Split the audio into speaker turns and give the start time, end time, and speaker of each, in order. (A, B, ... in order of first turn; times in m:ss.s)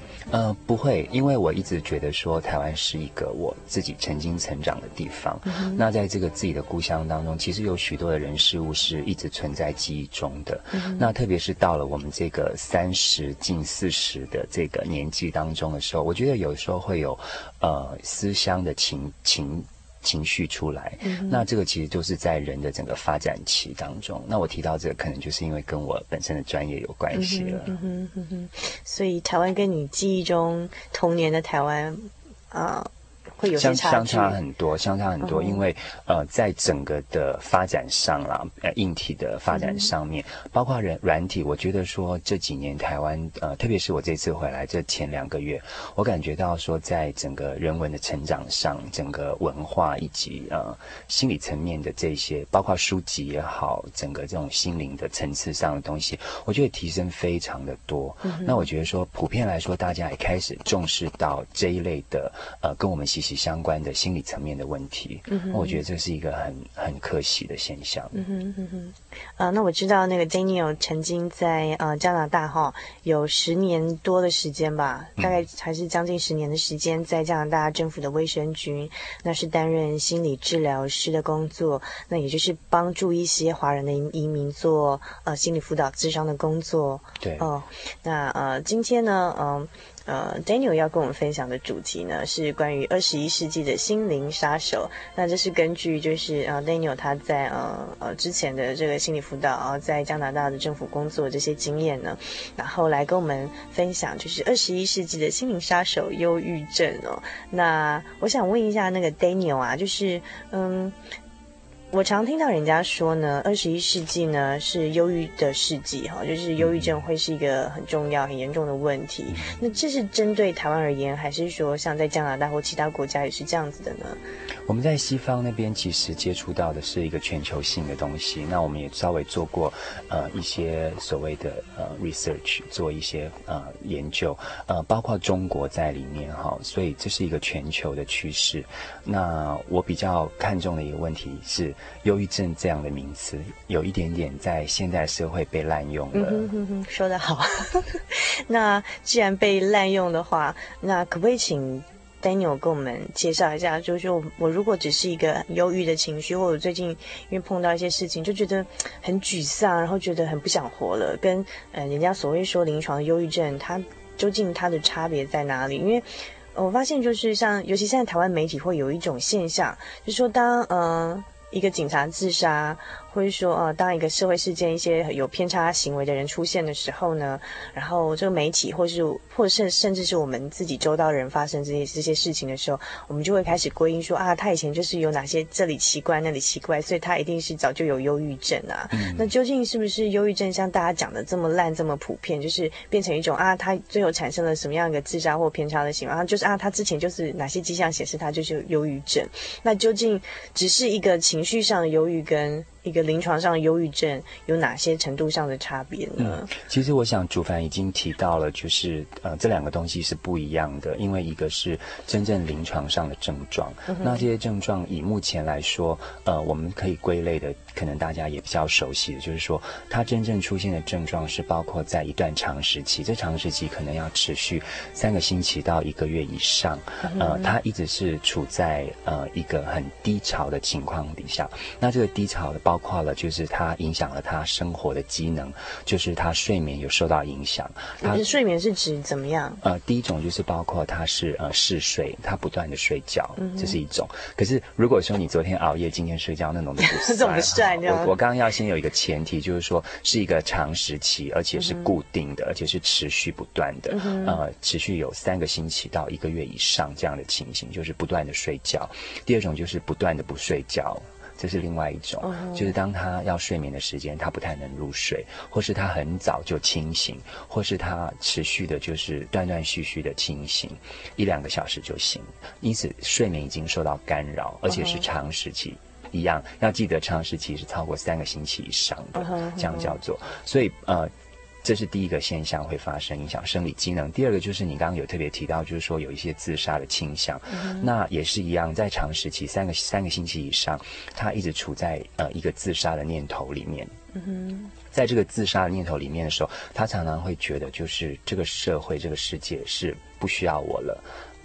0:00.3-0:27.8 A
0:05.4-0:05.8 B
0:10.7-0:11.1 B
0:21.0-0:21.4 B
0:27.1-0:34.4 B
0:33.5-1:08.2 A
0:35.2-0:35.6 B
0:39.5-0:39.9 B
0:58.2-0:58.7 B
1:05.3-1:05.8 B
1:08.1-1:51.0 B
1:27.2-1:27.5 A
1:51.9-2:04.2 B
1:56.6-1:56.9 A
1:59.3-1:59.6 A
2:04.6-2:26.5 A
2:26.1-3:26.5 B
3:08.9-3:09.3 A
3:26.2-3:58.2 A
3:33.9-3:34.2 B
3:47.0-3:47.5 B
3:58.0-3:59.6 B
3:59.6-4:41.1 A
4:03.4-4:03.8 B
4:06.8-4:08.1 B
4:11.6-4:11.9 B
4:13.9-4:14.4 B
4:22.2-4:22.7 B
4:34.7-4:35.0 B
4:39.1-4:40.0 B
4:41.6-4:53.9 A
4:47.5-4:47.9 B
4:54.1-4:54.7 B
4:54.9-5:01.0 A